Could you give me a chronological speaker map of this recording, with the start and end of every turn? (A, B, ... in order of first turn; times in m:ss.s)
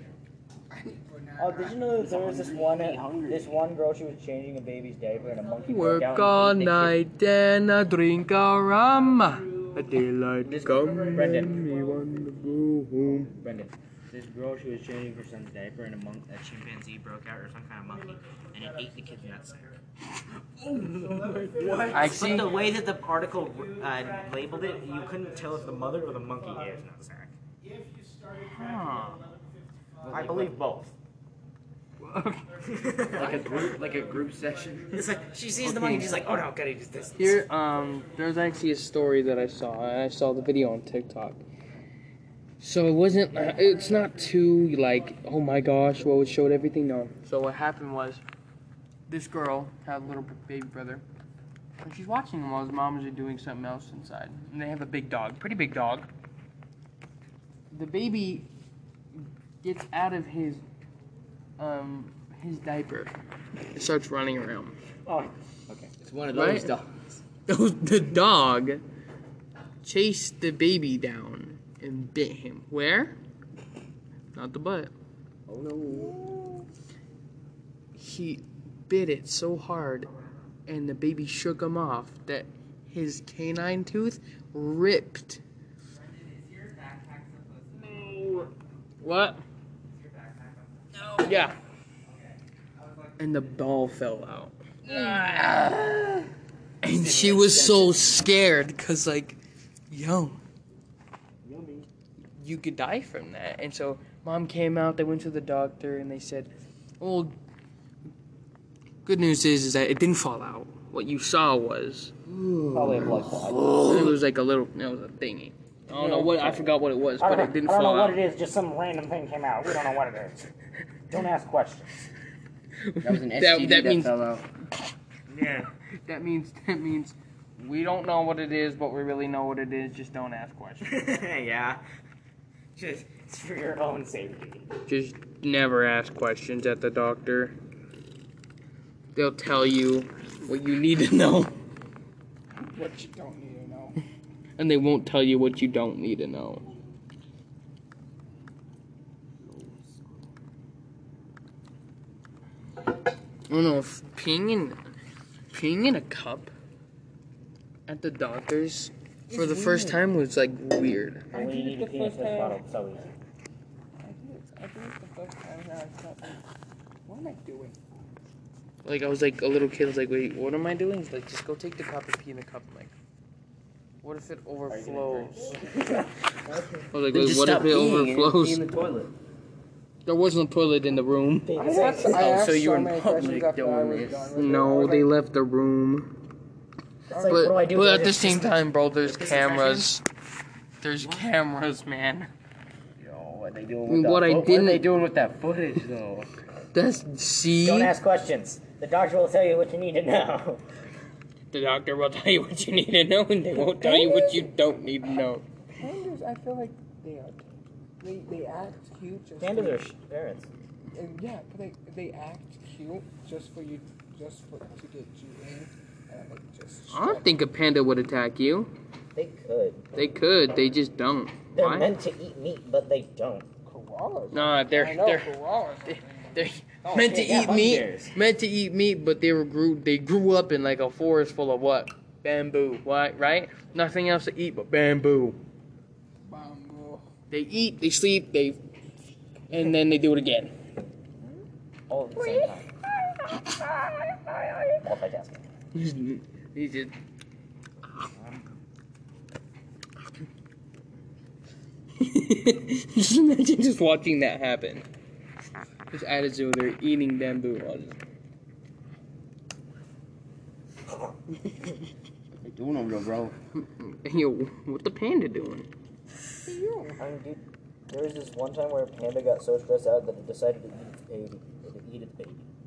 0:00.7-0:01.8 A
0:01.4-0:07.0 B
0:02.0-0:03.5 C
0:05.6-0:13.3 D
0:08.8-0:12.4 E
0:10.4-0:11.7 B
0:13.0-0:19.7 B
0:17.8-0:19.8 E
0:20.6-0:26.8 E
0:20.7-0:27.4 B
0:21.3-0:22.4 C
0:21.9-0:22.6 D
0:27.6-0:30.6 E
0:28.4-0:29.3 D
0:30.0-0:30.6 C
0:30.1-0:30.9 B
0:32.0-0:32.4 D
0:32.4-0:36.5 E
0:32.7-0:33.7 B
0:33.1-0:35.1 C
0:34.9-0:37.4 B
0:35.6-0:36.2 D
0:37.2-0:41.4 D
0:37.2-0:38.6 E
0:42.6-0:48.2 D
0:43.3-0:45.7 E
0:49.1-0:51.0 D
0:51.8-0:56.1 D
0:57.7-0:58.5 D
0:59.6-1:00.6 D
1:01.6-1:03.1 D
1:03.7-1:04.7 D
1:05.1-1:05.9 B
1:06.0-1:07.0 C
1:06.3-1:06.7 D
1:07.5-1:08.8 D
1:09.8-1:13.2 D
1:14.3-1:14.9 D
1:15.5-1:16.2 C
1:16.0-1:16.6 A
1:17.9-1:20.1 D
1:20.7-1:25.4 D
1:27.8-1:28.5 D
1:29.0-1:29.4 D
1:31.0-1:31.6 D
1:33.2-1:36.2 D
1:36.8-1:39.4 D
1:37.0-1:37.9 C
1:37.4-1:38.0 B
1:39.9-1:40.4 D
1:41.4-1:41.9 C
1:42.4-1:47.3 D
1:49.0-1:52.1 D
1:52.3-1:53.9 C
1:52.7-1:54.1 B
1:53.8-1:58.2 D
1:55.9-1:56.6 C
1:57.2-2:00.5 B
2:01.1-2:02.0 B
2:02.9-2:04.1 D
2:03.0-2:04.4 C
2:05.3-2:05.7 B
2:05.4-2:11.0 D
2:10.8-2:11.8 B
2:12.8-2:14.7 B
2:14.9-2:17.5 D
2:19.1-2:21.5 D
2:22.6-2:24.0 A
2:24.6-2:26.6 D
2:29.4-2:30.2 C
2:33.5-2:34.8 D
2:35.5-2:36.5 D
2:37.9-2:41.3 D
2:39.3-2:40.0 A
2:41.3-2:43.1 B
2:41.3-2:42.6 A
2:44.0-2:46.4 A
2:47.0-2:47.8 A
2:48.8-2:52.9 D
2:54.0-2:55.6 D
2:54.7-2:55.7 C
2:55.6-2:56.8 B
2:56.9-2:58.6 D
2:57.1-2:59.1 C
3:00.0-3:01.5 D
3:01.4-3:02.4 B
3:01.6-3:05.1 A
3:01.8-3:04.4 C
3:04.3-3:06.2 D
3:07.1-3:07.5 A
3:07.1-3:10.0 B
3:07.3-3:10.0 D
3:10.8-3:12.3 D
3:11.0-3:11.3 C
3:13.0-3:16.3 C
3:13.9-3:14.8 D
3:16.7-3:17.9 D
3:17.6-3:20.6 B
3:21.5-3:25.4 D
3:23.6-3:24.5 A
3:25.7-3:29.9 A
3:29.4-3:30.5 B
3:30.9-3:37.4 A
3:36.9-3:38.7 D
3:39.1-3:39.9 B
3:39.9-3:41.9 D
3:41.5-3:43.5 B
3:43.6-3:46.5 A
3:44.3-3:45.3 D
3:45.9-3:55.4 D
3:46.8-3:48.1 B
3:56.2-3:57.0 A
3:57.3-3:58.6 D
3:59.5-4:00.5 D
4:01.9-4:02.7 B
4:02.1-4:04.8 A
4:04.8-4:05.5 B
4:05.7-4:06.9 D
4:12.0-4:14.8 D
4:15.9-4:18.0 D
4:22.4-4:23.4 C
4:23.6-4:25.7 D
4:26.4-4:27.0 A
4:27.0-4:32.5 B